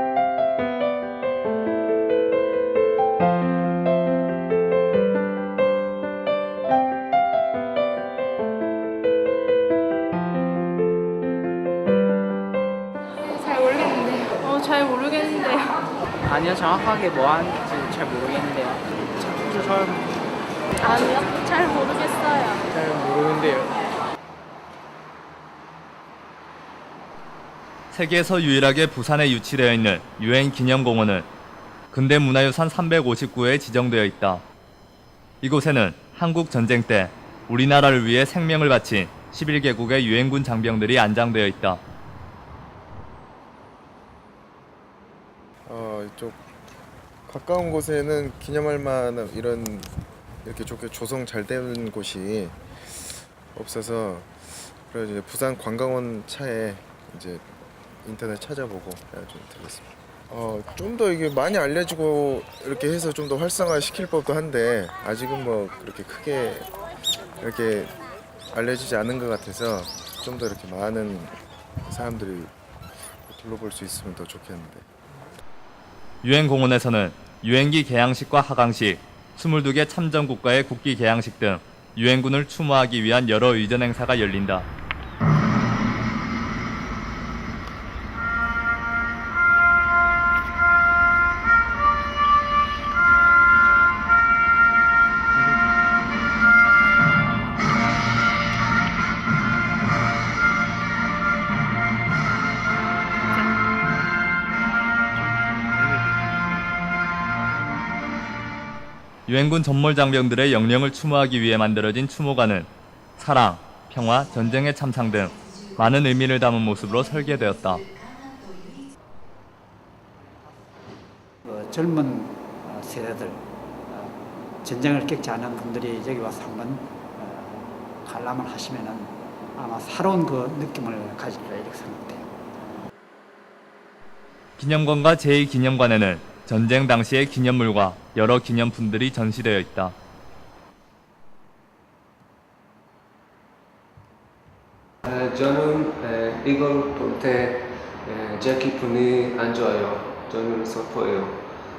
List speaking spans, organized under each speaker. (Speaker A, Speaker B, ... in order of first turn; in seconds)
Speaker A: 13.3-15.8, 19.4-19.9, 20.8-22.6
Speaker B: 16.3-18.7, 19.3-19.9, 22.8-23.6
Speaker C: 27.9-31.3, 31.9-34.4, 35.4-41.8, 76.2-84.7, 109.3-117.9, 134.6-139.9
Speaker D: 45.6-46.4, 47.2-49.9, 50.4-57.5, 58.0-66.7, 67.4-68.0, 68.5-72.5, 73.2-74.9
Speaker E: 121.4-132.3
Speaker F: 145.0-151.5